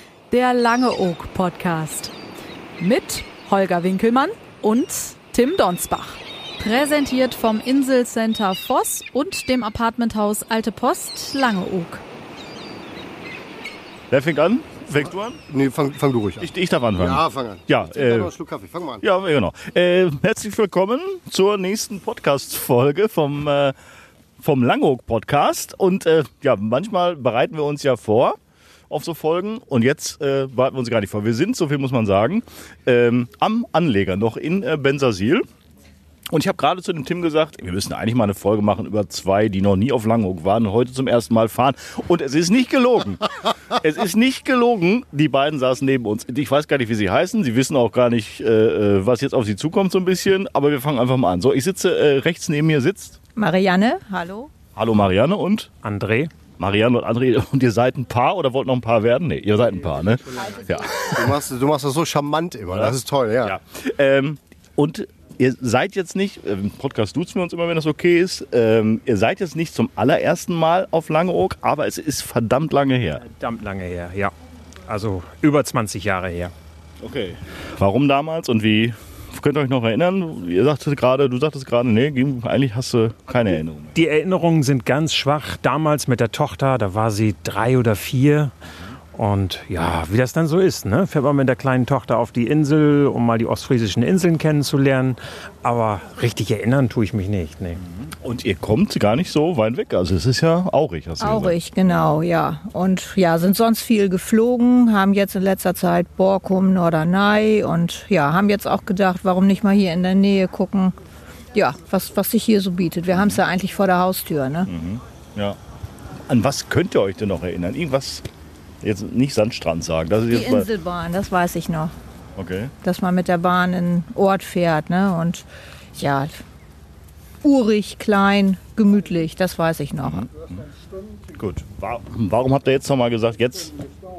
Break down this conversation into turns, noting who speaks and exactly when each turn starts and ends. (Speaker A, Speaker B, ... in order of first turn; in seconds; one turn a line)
Speaker A: 0.3-2.1
Speaker A: 2.8-12.0
Speaker B: 14.1-15.4
Speaker C: 15.5-19.0
Speaker B: 16.4-18.3
Speaker B: 19.0-23.8
Speaker B: 24.4-28.4
Speaker B: 28.9-35.5
Speaker B: 36.3-53.2
Speaker D: 53.4-54.5
Speaker B: 54.8-55.7
Speaker E: 55.8-56.3
Speaker B: 56.6-61.4
Speaker C: 61.1-63.6
Speaker B: 62.8-73.2
Speaker E: 73.2-74.3
Speaker E: 74.9-76.5
Speaker B: 77.0-84.0
Speaker E: 84.0-88.5
Speaker E: 89.2-97.8
Speaker B: 98.0-101.6
Speaker D: 101.2-111.0
Speaker D: 111.5-114.7
Speaker B: 113.1-113.4
Speaker B: 114.7-115.6
Speaker B: 116.3-118.3
Speaker B: 118.8-120.7
Speaker D: 120.3-121.9
Speaker B: 122.4-122.7
Speaker D: 122.8-126.4
Speaker D: 127.4-130.3
Speaker B: 130.0-130.7
Speaker B: 131.4-133.8